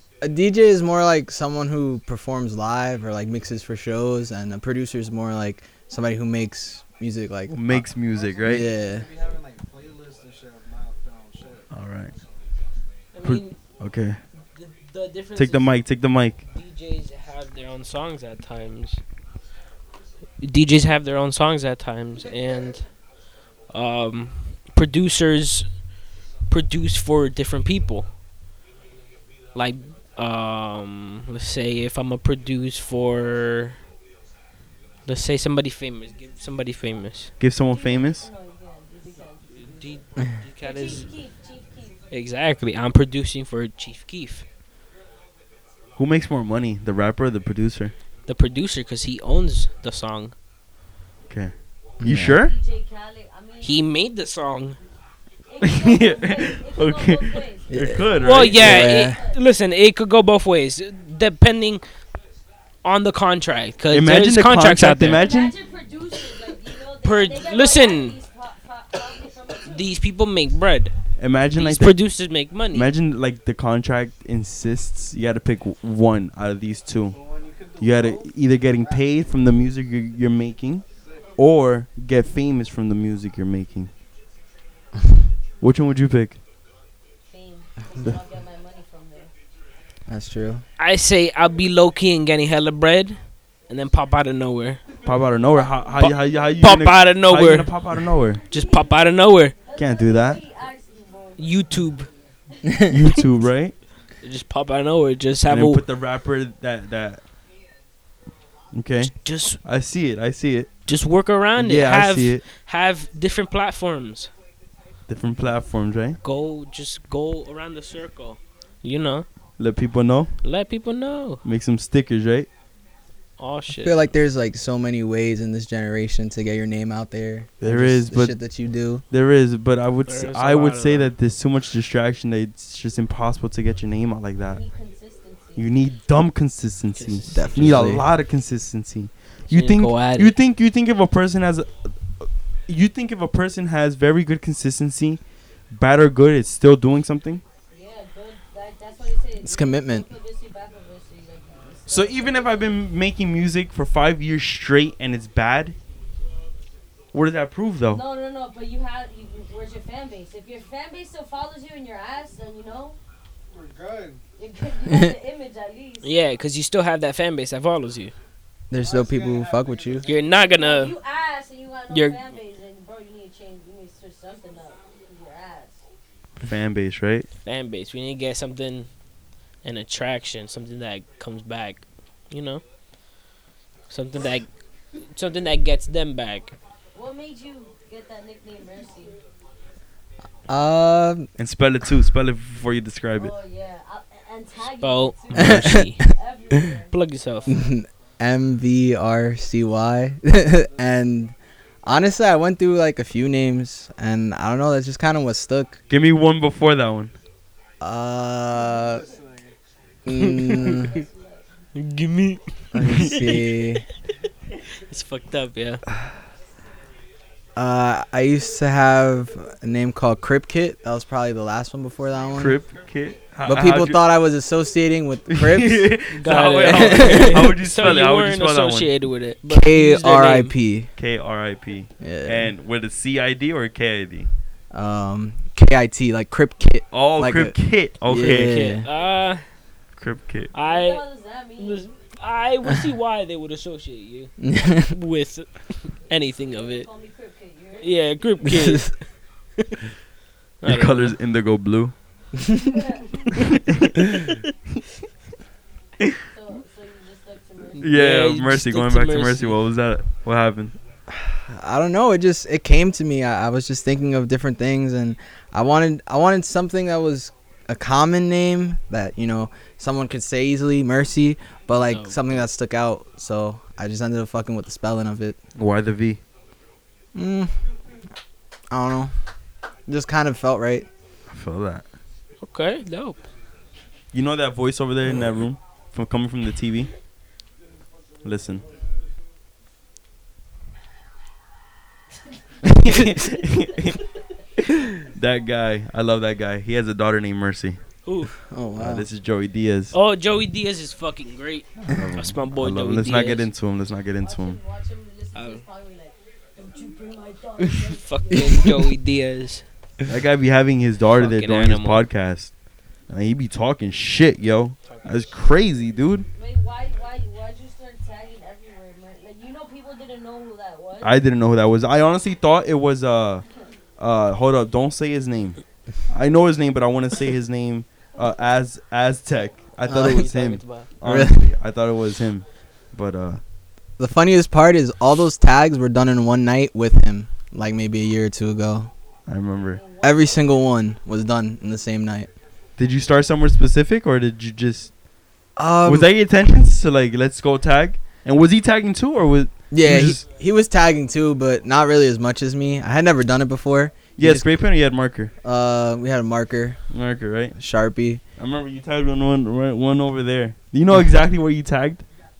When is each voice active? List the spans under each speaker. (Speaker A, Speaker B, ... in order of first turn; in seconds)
Speaker A: 0.2-7.8, 8.4-9.1, 52.0-52.4, 57.7-59.2, 90.1-90.6, 123.8-129.0, 137.3-138.1, 149.4-150.1, 168.7-170.0, 190.5-191.3, 195.3-196.1, 197.5-205.8, 207.8-209.0, 210.1-210.9, 212.7-213.8, 217.6-222.6, 223.4-226.0, 226.7-227.5, 229.5-230.9, 232.0-232.5, 234.7-238.8, 244.4-244.9, 261.1-275.4, 277.1-277.5, 278.7-279.1, 279.9-280.9, 298.4-299.0, 329.9-330.3, 331.0-331.5, 334.0-338.9, 340.0-342.3, 345.6-346.1, 349.7-354.5, 355.4-356.8, 357.6-358.2
Speaker B: 7.5-8.7, 11.7-12.1, 13.2-14.2, 15.3-16.4, 37.4-38.3, 46.0-47.9, 51.3-52.5, 55.6-58.8, 63.9-65.5, 71.2-72.0, 72.7-80.8, 81.3-83.9, 85.6-86.4, 95.0-98.4, 99.8-100.4, 102.9-103.7, 105.5-107.2, 108.7-110.7, 111.6-112.4, 115.1-116.2, 119.6-120.3, 121.4-122.5, 127.6-128.3, 129.1-134.6, 135.6-147.4, 151.9-155.8, 157.1-158.0, 176.4-177.3, 191.4-193.3, 205.9-207.1, 212.8-213.1, 222.3-224.0, 225.3-228.9, 230.9-234.3, 236.9-238.6, 240.0-240.5, 250.6-251.9, 257.8-260.8, 275.6-276.2, 281.3-281.9, 284.1-286.9, 288.2-288.6, 292.8-293.9, 295.0-297.8, 298.8-299.9, 301.9-304.6, 310.1-312.6, 313.1-316.2, 321.0-323.4, 324.0-333.4, 339.3-339.8, 342.8-344.9, 345.8-350.2, 354.2-355.3, 356.9-357.6, 358.4-362.1
Speaker C: 7.9-11.7, 77.1-79.0, 81.0-81.4, 163.5-164.2, 168.8-170.3, 208.5-209.5, 222.2-222.7
Speaker D: 13.1-13.6, 14.5-15.8, 16.4-19.0, 20.4-22.9, 23.7-25.8, 26.5-28.1, 29.5-33.8, 35.0-37.3, 39.6-41.1, 42.1-44.4, 48.3-50.3, 53.6-54.8, 58.2-61.8, 62.8-65.2, 67.0-68.2, 69.7-70.9, 71.6-72.9, 90.8-94.8, 96.0-97.8, 98.5-99.5, 101.4-102.1, 104.2-105.8, 109.2-109.6, 110.9-114.3, 116.2-119.2, 120.4-121.4, 123.4-124.0, 130.1-131.1, 136.9-138.0, 139.5-140.3, 166.0-168.1, 170.1-170.9, 171.9-172.2, 177.4-178.9, 179.6-182.6, 183.9-184.5, 185.1-186.5, 194.8-196.0, 196.9-197.5, 210.2-211.0, 211.7-213.6, 214.9-215.8, 226.1-230.5, 238.1-239.4, 240.5-241.0, 241.6-246.9, 247.8-249.1, 250.6-251.2, 257.7-259.6, 271.7-272.4, 282.4-283.2, 298.0-298.3, 299.9-303.5, 305.3-305.6, 307.7-309.6, 311.1-312.0, 314.8-315.4, 329.9-330.9
Speaker E: 37.7-40.0, 40.6-42.0, 52.3-53.8, 55.5-59.4, 65.1-69.9, 87.3-89.3, 95.6-96.1, 98.5-99.1, 99.6-101.5, 102.5-102.8, 134.5-135.8, 147.7-152.7, 157.9-163.0, 164.4-166.1, 170.1-175.8, 186.9-189.2, 193.2-197.6, 210.7-211.4, 240.6-241.9, 246.5-248.1, 252.6-253.2, 256.3-257.9, 304.2-308.8, 316.3-321.1, 339.7-340.7